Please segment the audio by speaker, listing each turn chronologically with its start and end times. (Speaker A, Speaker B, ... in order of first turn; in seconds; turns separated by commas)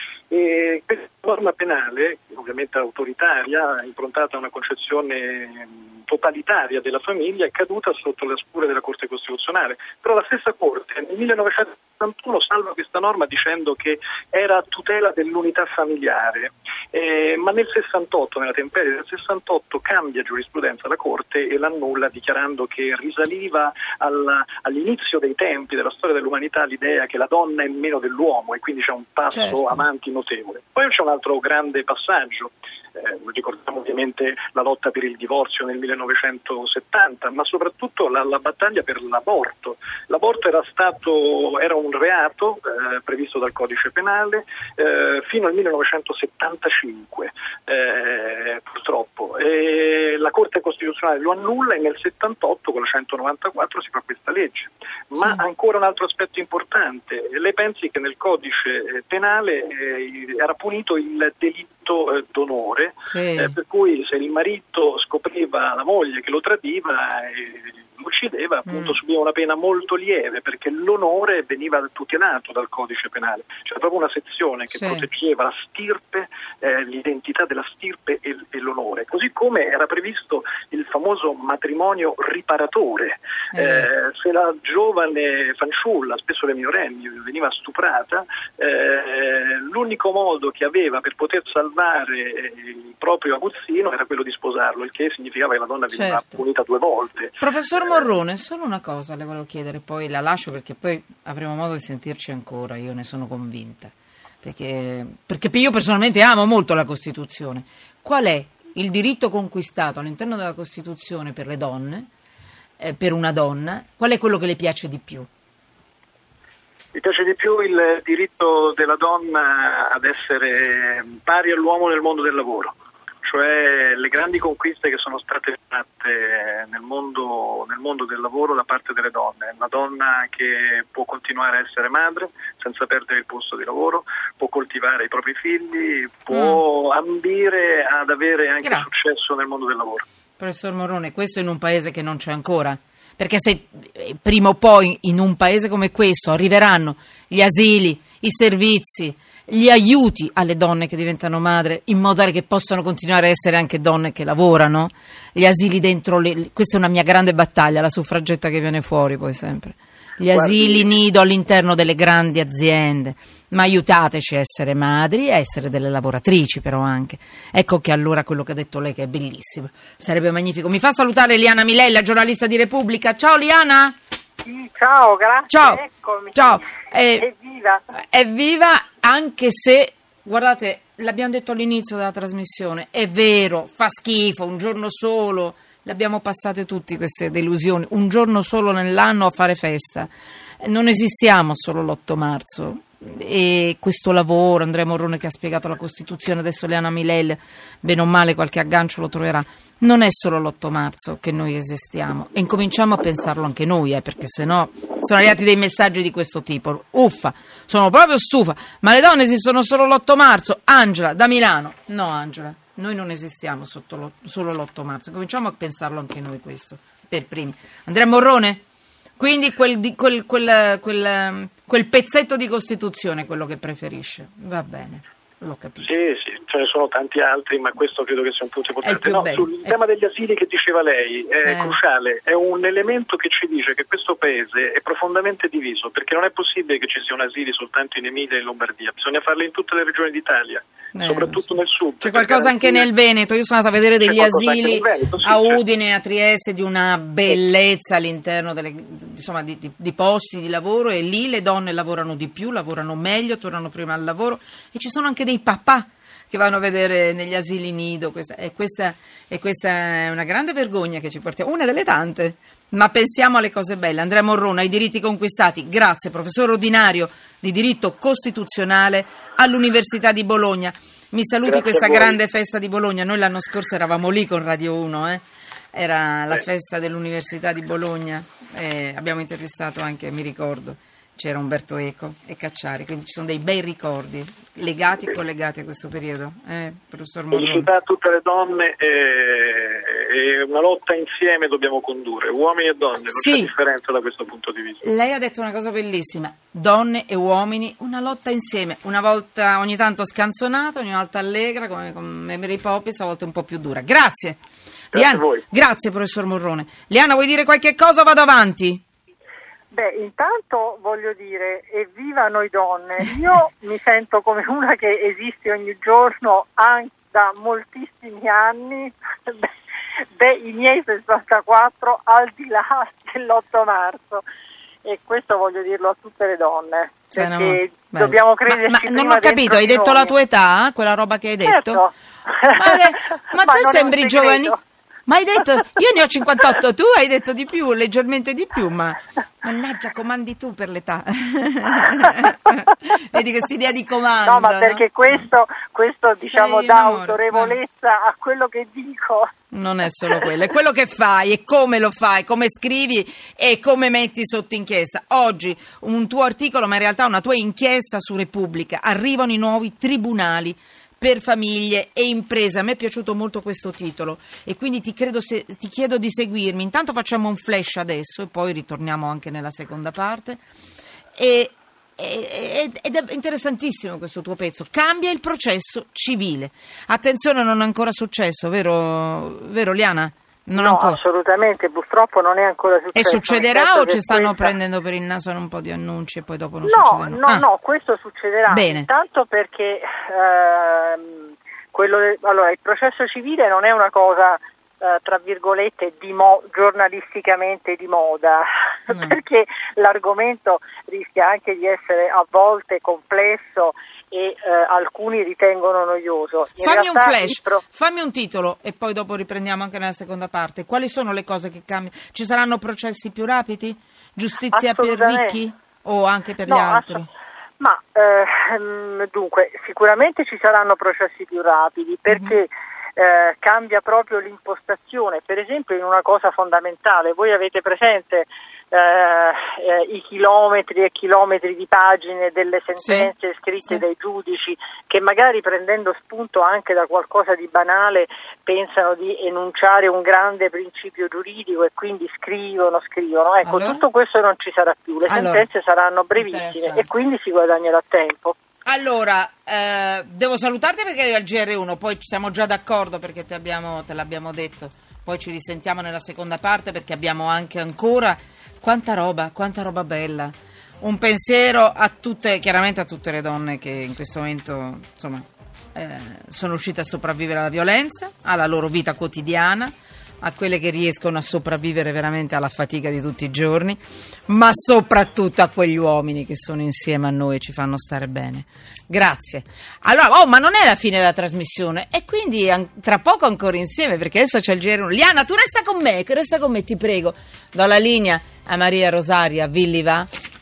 Speaker A: 0.3-97.4, Speaker B: 29.3-29.8, Speaker B: 63.1-63.5, Speaker B: 68.7-69.0, Speaker B: 74.7-75.0, Speaker B: 83.5-83.9, Speaker B: 95.9-96.4, Speaker B: 97.4-112.1, Speaker B: 112.8-115.3, Speaker A: 116.9-122.7, Speaker A: 123.2-140.0, Speaker B: 136.3-136.6, Speaker B: 140.4-173.9, Speaker A: 160.3-160.9, Speaker C: 174.4-177.8, Speaker B: 175.5-177.3, Speaker B: 178.0-190.1, Speaker B: 190.6-218.6, Speaker B: 219.2-225.9, Speaker A: 225.8-242.9, Speaker B: 228.8-229.7, Speaker B: 231.4-231.8, Speaker B: 240.9-241.4, Speaker B: 242.0-287.7, Speaker A: 244.0-245.6, Speaker A: 271.5-272.1, Speaker A: 287.3-294.8, Speaker B: 293.1-293.5, Speaker B: 294.8-304.4, Speaker A: 304.9-305.4, Speaker B: 304.9-308.8, Speaker C: 309.7-319.5, Speaker C: 320.2-324.2, Speaker C: 324.8-330.2, Speaker B: 327.1-331.9, Speaker C: 331.4-332.8, Speaker B: 332.5-334.5, Speaker C: 333.4-334.6, Speaker B: 335.1-345.2, Speaker C: 344.2-349.3, Speaker B: 346.2-347.6, Speaker B: 349.5-370.4, Speaker B: 371.2-381.0, Speaker C: 380.6-384.6, Speaker B: 382.9-387.5, Speaker C: 386.6-407.6, Speaker B: 388.5-388.9, Speaker B: 398.9-399.2, Speaker B: 406.6-417.1, Speaker C: 414.5-415.4, Speaker C: 416.5-417.0, Speaker C: 417.6-448.4, Speaker B: 422.1-422.4, Speaker B: 432.8-433.1, Speaker B: 443.4-443.8, Speaker B: 445.1-445.5, Speaker B: 446.2-446.9, Speaker B: 448.7-490.1